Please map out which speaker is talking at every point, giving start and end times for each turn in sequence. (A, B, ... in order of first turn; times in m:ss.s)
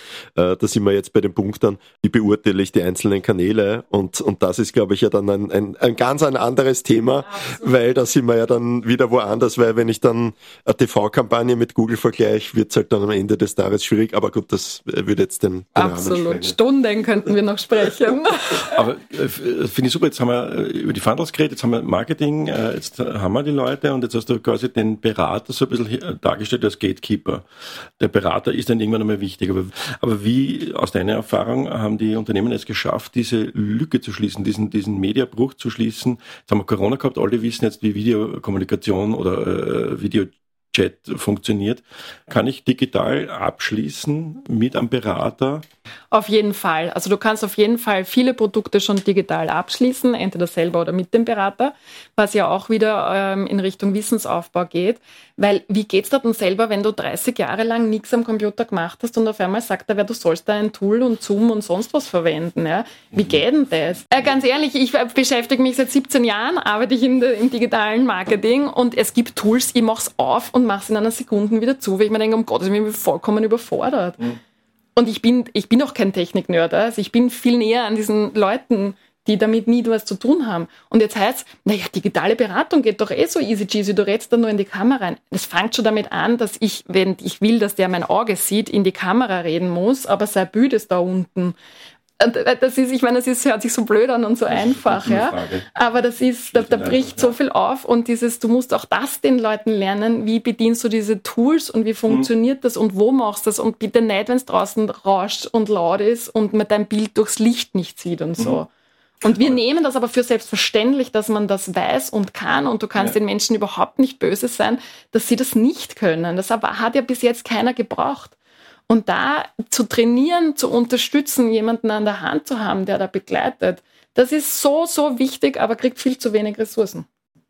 0:00.4-0:16.6 A
0:15.8-0:18.8 B
0:18.6-0:27.4 C
0:28.0-0:45.6 C
0:46.1-1:14.3 B
1:15.0-1:31.6 B
1:32.2-1:48.7 B
1:34.5-1:35.6 C
1:36.6-1:37.3 C
1:49.2-1:58.4 B
1:58.9-2:07.1 B